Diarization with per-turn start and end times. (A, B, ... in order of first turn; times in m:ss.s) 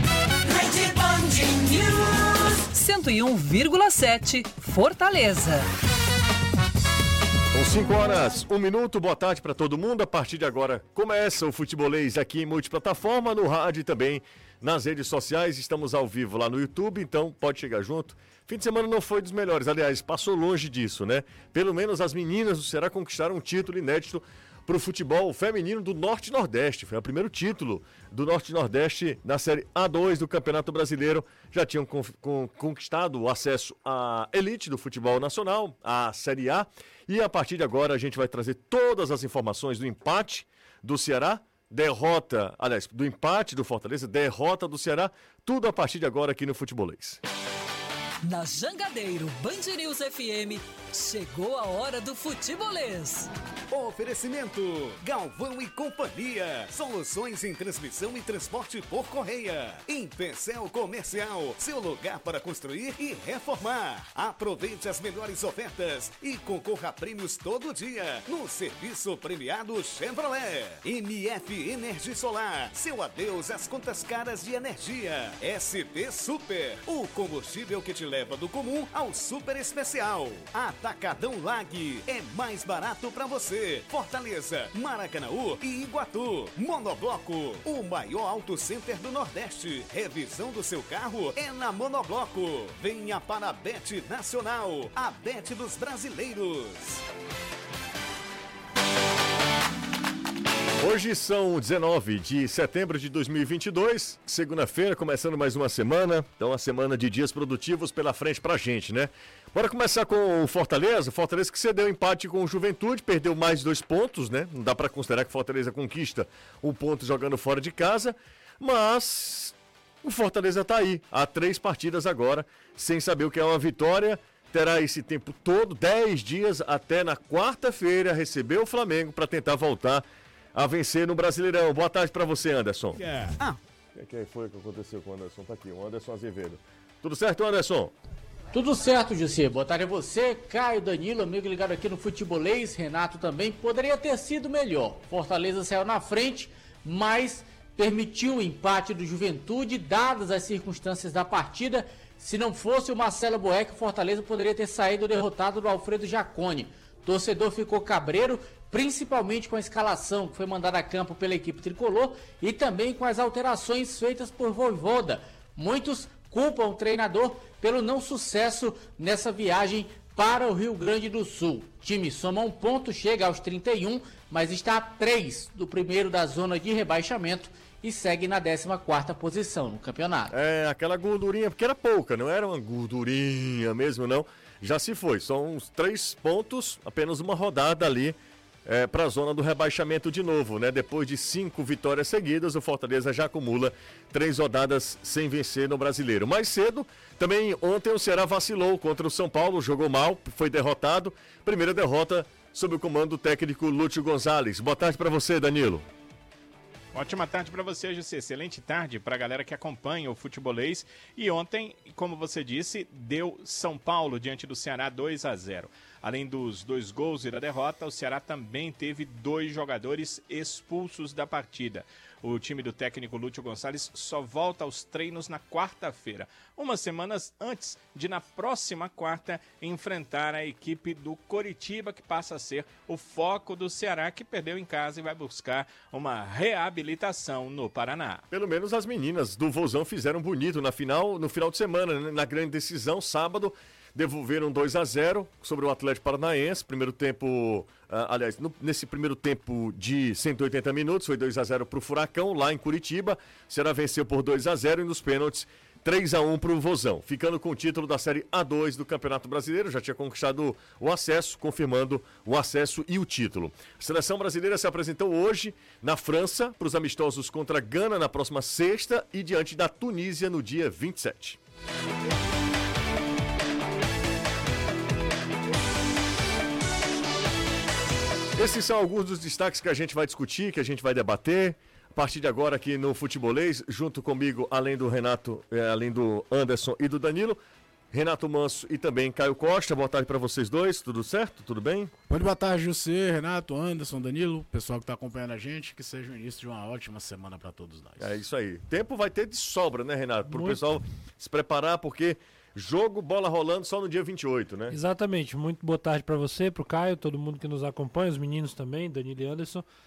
0:00.5-0:05.7 A
0:07.5-0:47.2 B
0:48.2-0:53.3 A
0:53.7-1:37.0 C
1:40.8-2:13.0 B
2:13.1-2:13.6 C
2:13.9-2:17.9 B
2:18.5-3:00.3 D
3:00.3-3:25.8 B
3:26.9-3:58.2 E
3:58.3-4:31.4 B
4:38.4-4:47.4 B
4:47.9-4:51.9 B
4:52.1-4:58.1 F
4:58.0-5:04.8 B
5:00.3-5:00.6 G
5:04.7-5:09.6 G